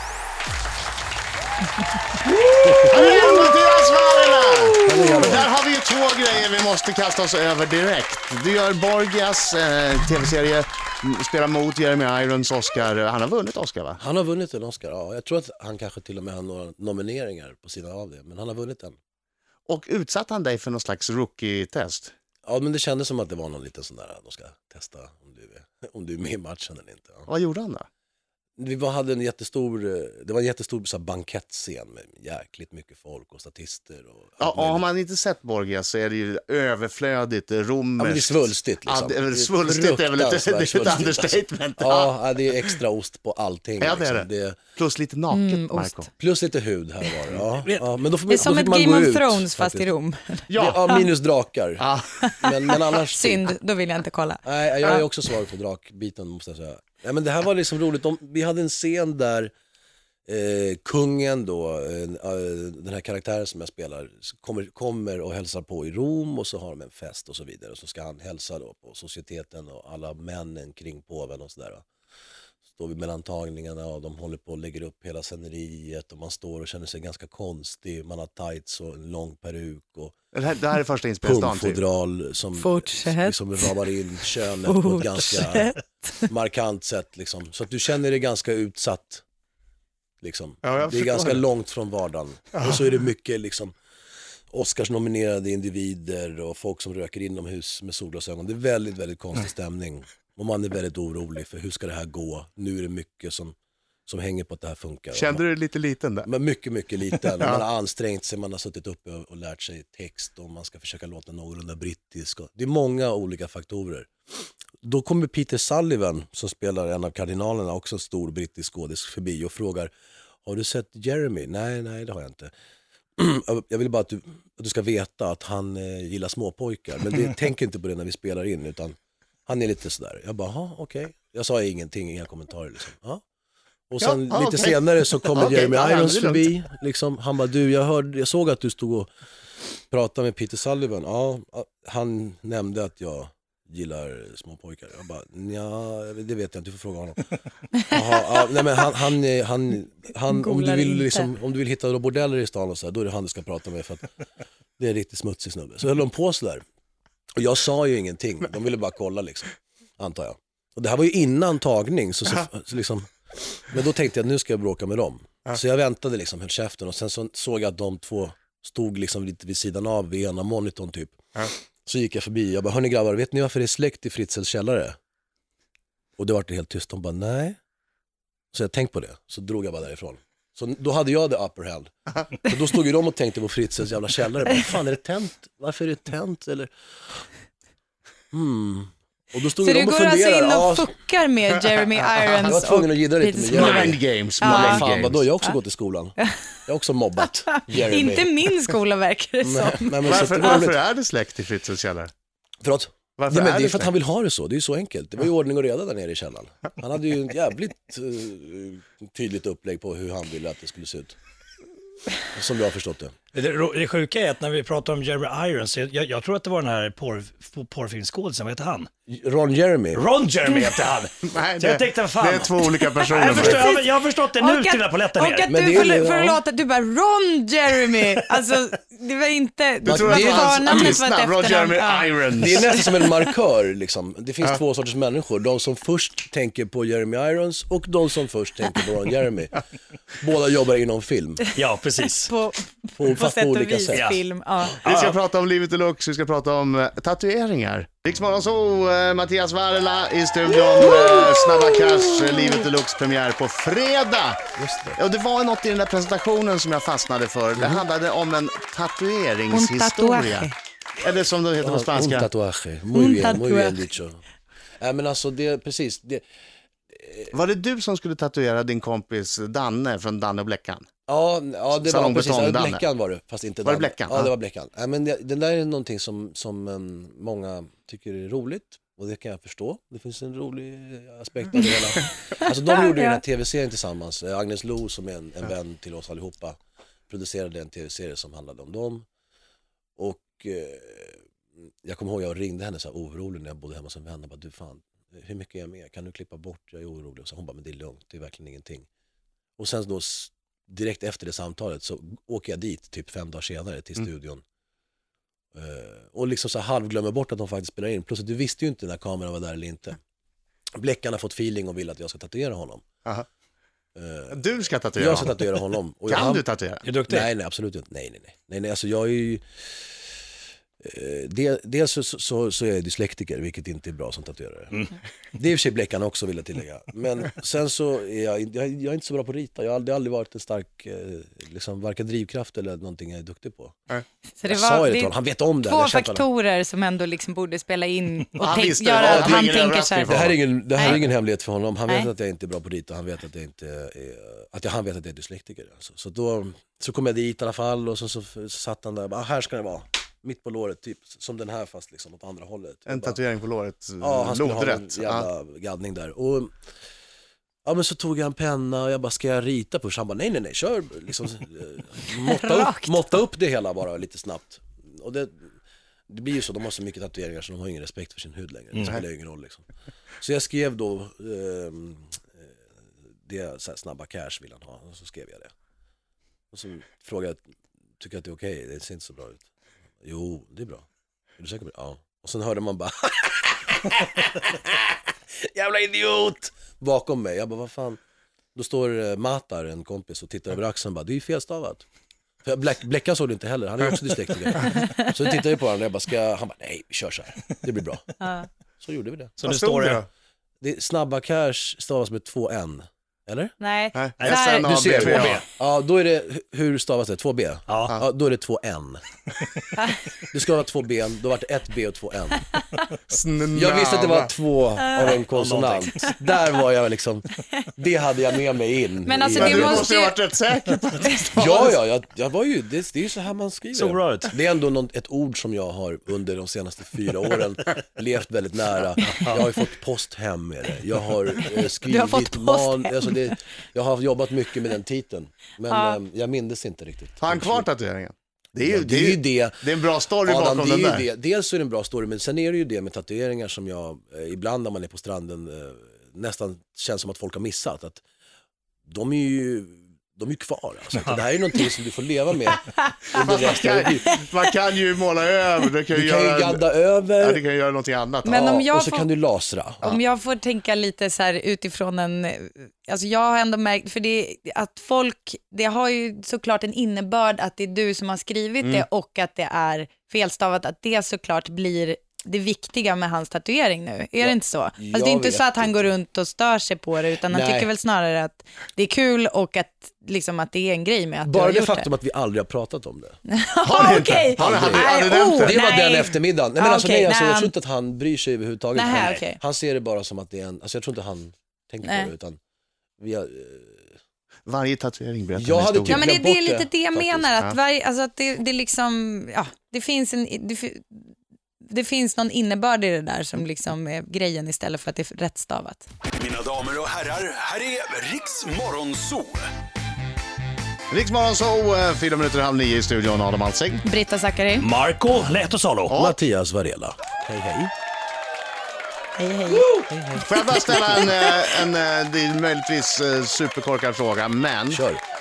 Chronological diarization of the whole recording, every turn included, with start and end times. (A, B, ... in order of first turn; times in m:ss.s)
0:02.6-0:03.4 A
0:02.8-0:14.0 B
0:03.0-0:03.5 C
0:04.8-0:05.5 A
0:04.9-0:05.2 C
0:14.0-0:19.0 A
0:19.7-0:22.1 B
0:22.5-0:27.3 A
0:27.3-0:27.9 B
0:28.6-0:34.8 A
0:34.4-0:42.1 B
0:38.0-0:44.6 A
0:43.8-0:46.1 B
0:45.3-0:46.1 C
0:46.2-0:49.9 A
0:48.3-0:51.1 C
0:50.5-0:51.0 B
0:50.5-0:53.5 A
0:51.8-0:52.4 B
0:52.3-0:55.0 C
0:54.4-0:59.5 A
1:00.3-1:11.8 A
1:12.7-1:20.2 A
1:20.3-1:21.8 B
1:21.2-1:25.7 A
1:22.6-1:23.8 C
1:24.6-1:26.3 C
1:26.3-1:29.2 A
1:30.2-1:33.7 A
1:30.6-1:31.4 B
1:34.5-1:43.6 A
1:44.1-1:45.4 A
1:45.1-1:46.3 B
1:46.2-1:59.9 A
2:00.4-2:02.5 A
2:03.2-2:13.2 A
2:13.9-2:19.1 A
2:14.0-2:16.5 B
2:19.9-2:27.2 A
2:27.9-2:34.1 A
2:30.3-2:31.3 C
2:34.8-2:36.6 A
2:37.4-2:55.0 A
2:56.2-2:57.6 A
2:58.5-3:07.2 A
3:08.3-3:10.9 A
3:09.6-3:14.8 C
3:12.4-3:18.5 A
3:13.5-3:15.2 B
3:17.5-3:20.4 C
3:19.4-3:20.8 A
3:20.1-3:22.1 B
3:22.6-3:31.2 A
3:23.2-3:23.9 B
3:32.3-3:33.1 A
3:33.3-3:38.9 D
3:39.1-3:40.0 A
3:39.9-3:45.5 D
3:41.3-3:43.6 B
3:43.3-3:53.2 C
3:45.5-3:46.4 A
3:49.8-3:51.0 A
3:49.8-3:52.8 B
3:52.4-3:59.6 A
4:00.2-4:01.4 A
4:01.6-4:02.3 D
4:02.2-4:04.8 C
4:03.0-4:04.1 A
4:03.9-4:04.2 D
4:04.8-4:05.2 D
4:04.8-4:14.4 B
4:10.7-4:12.6 C
4:14.6-4:15.0 A
4:15.0-4:22.3 B
4:17.6-4:17.8 A
4:19.5-4:20.6 C
4:21.6-4:24.2 A
4:22.9-4:23.8 C
4:24.8-4:26.2 A
4:26.9-4:27.4 A
4:27.3-4:30.9 B
4:31.1-4:46.6 A
4:31.7-4:32.8 B
4:33.6-4:34.3 B
4:47.1-4:49.1 A
4:50.0-4:51.2 A
4:51.8-4:58.9 A
4:59.6-5:04.4 A
5:05.5-5:10.0 A
5:10.8-5:12.8 A
5:13.9-5:14.4 A
5:14.3-5:16.8 B
5:15.0-5:16.4 A
5:16.8-5:17.3 D
5:17.0-5:19.4 A
5:20.8-5:24.8 A
5:25.4-5:33.8 A
5:34.4-5:41.0 C
5:34.4-5:36.2 A
5:38.4-5:40.4 B
5:39.0-5:39.4 A
5:40.1-5:53.2 A
5:52.9-5:55.3 B
5:54.0-5:56.5 A
5:57.6-6:05.5 A
6:02.2-6:03.0 C
6:06.1-6:09.6 A
6:10.2-6:12.6 A
6:13.2-6:15.5 A
6:16.5-6:17.4 A
6:18.0-6:19.4 A
6:20.0-6:20.9 A
6:21.4-6:28.0 A
6:28.6-6:31.8 A
6:32.4-6:38.1 A
6:34.8-6:35.1 C
6:38.2-6:38.5 C
6:38.8-6:39.4 A
6:39.4-6:40.0 D
6:39.4-6:40.1 B
6:40.6-6:43.5 A
6:43.6-6:44.7 C
6:43.9-6:45.4 B
6:44.2-6:45.4 D
6:44.6-6:49.0 A
6:47.7-6:48.0 D
6:50.3-6:52.5 A
6:53.1-6:54.3 B
6:53.5-6:59.9 A
6:54.8-6:55.1 C
6:55.0-6:56.1 D
6:59.0-7:00.2 C
6:59.4-7:01.8 B
7:01.4-7:17.7 A
7:03.7-7:04.4 D
7:11.8-7:13.4 C
7:15.7-7:16.0 C
7:17.2-7:21.0 B
7:18.6-7:19.7 A
7:20.2-7:28.0 A
7:28.9-7:34.2 A
7:33.1-7:36.6 B
7:35.9-7:37.4 A
7:37.2-7:38.5 B
7:38.2-7:39.1 C
7:38.3-7:40.0 A
7:39.8-8:01.9 C
7:54.2-7:55.9 A
7:57.3-7:57.7 A
8:01.2-8:03.2 A
8:03.3-8:07.5 C
8:03.6-8:05.6 B
8:04.3-8:12.4 A
8:08.8-8:09.4 C
8:11.8-8:12.1 C
8:13.0-8:13.9 A
8:14.4-8:16.1 B
8:15.4-8:17.3 A
8:15.9-8:21.1 C
8:21.7-8:25.8 C
8:26.2-8:29.5 E
8:30.9-8:33.8 B
8:33.8-8:34.7 C
8:34.6-8:35.9 D
8:35.9-8:36.2 B
8:35.9-8:37.7 A
8:39.2-8:39.8 C
8:39.8-8:40.8 A
8:40.2-8:44.8 B
8:44.7-8:45.0 A